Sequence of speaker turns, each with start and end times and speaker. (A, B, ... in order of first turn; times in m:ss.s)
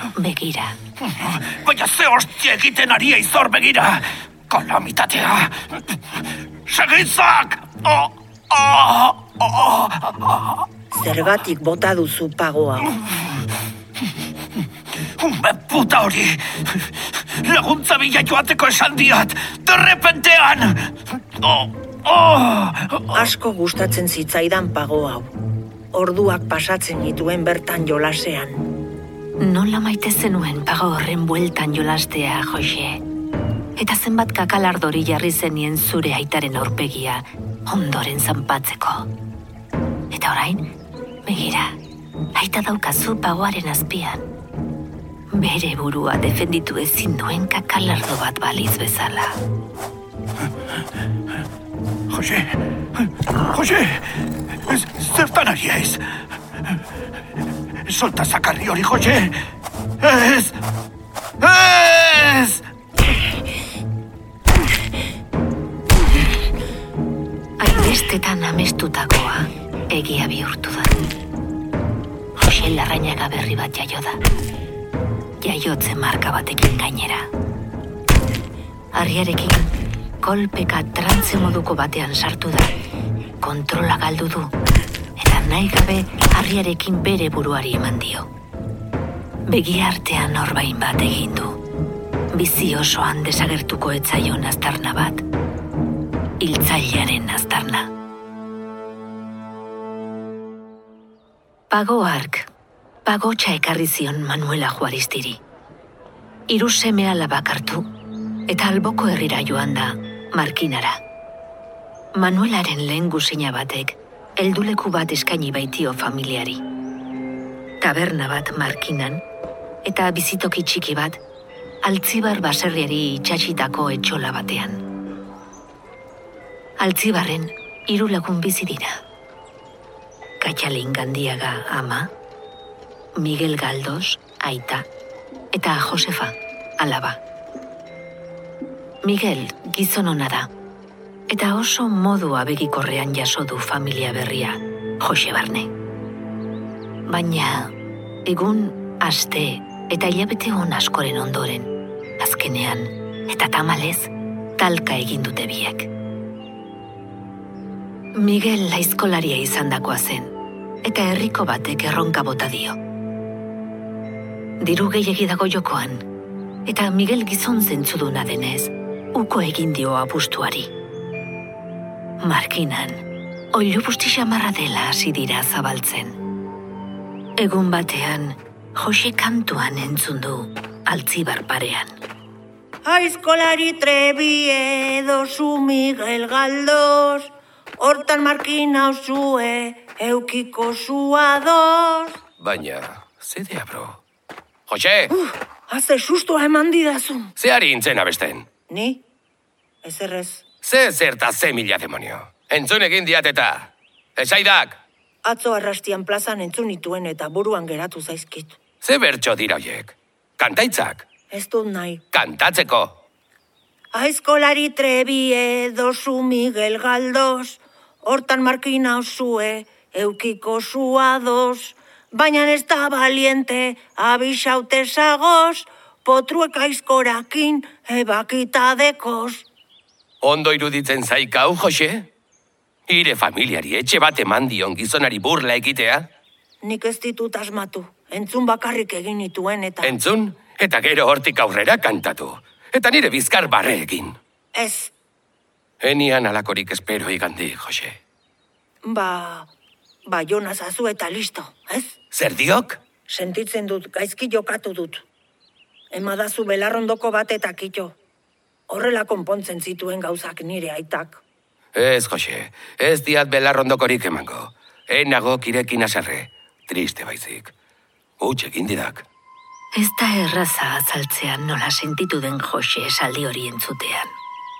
0:00.2-0:00.8 A
0:01.0-0:06.0 B
0:06.7-0:10.6 B
0:10.9-0:12.9 C
0:15.2-0:16.8 B
0:17.4-0:23.3 B
0:23.1-0:25.3 C
0:25.9-0:28.6 C
0:29.4-0:33.0 A
0:33.8-0:39.1 A
0:40.1-0:40.7 A
0:41.2-0:41.7 A
0:42.3-0:44.2 A
0:45.3-0:49.4 A
0:52.1-0:54.1 B
0:54.7-0:56.0 B
0:57.8-0:59.4 B
1:00.0-1:00.5 B
1:01.4-1:02.6 B
1:07.6-1:10.9 A
1:12.4-1:14.2 A
1:15.4-1:17.3 A
1:18.9-1:22.7 A
1:23.4-1:24.5 A
1:25.2-1:28.3 A
1:29.5-1:31.6 A
1:32.3-1:35.2 A
1:36.4-1:37.9 A
1:41.7-1:42.5 A
1:43.0-1:45.4 A
1:46.5-1:47.9 A
1:48.5-1:51.0 A
1:52.2-1:56.6 A
1:57.8-1:59.2 A
1:59.8-2:01.2 A
2:01.8-2:04.8 A
2:06.8-2:09.0 A
2:10.4-2:12.1 A
2:13.2-2:14.8 A
2:15.5-2:17.2 A
2:19.0-2:20.5 A
2:21.3-2:25.7 A
2:27.1-2:27.7 A
2:28.2-2:35.9 A
2:38.1-2:40.3 A
2:40.8-2:42.8 A
2:44.6-2:46.0 A
2:46.6-2:50.7 A
2:52.2-2:53.0 A
2:53.5-2:56.2 A
2:57.4-3:02.0 A
3:02.8-3:12.2 C
3:12.4-3:14.0 D
3:14.7-3:15.1 D
3:15.1-3:17.3 C
3:17.4-3:18.4 D
3:18.7-3:19.0 C
3:19.8-3:20.4 C
3:20.6-3:24.8 D
3:25.2-3:28.6 C
3:28.8-3:31.0 D
3:31.3-3:32.0 C
3:32.1-3:32.9 D
3:33.9-3:49.4 C
3:50.2-3:52.0 D
3:52.9-3:56.0 D
3:56.6-3:59.9 C
3:59.8-4:04.2 D
4:04.5-4:04.9 C
4:05.8-4:08.0 D
4:08.8-4:09.5 C
4:10.1-4:11.9 C
4:12.1-4:12.8 D
4:13.1-4:15.0 C
4:15.9-4:18.0 C
4:18.7-4:21.2 C
4:21.7-4:27.5 D
4:28.2-4:29.0 D
4:29.8-4:34.1 A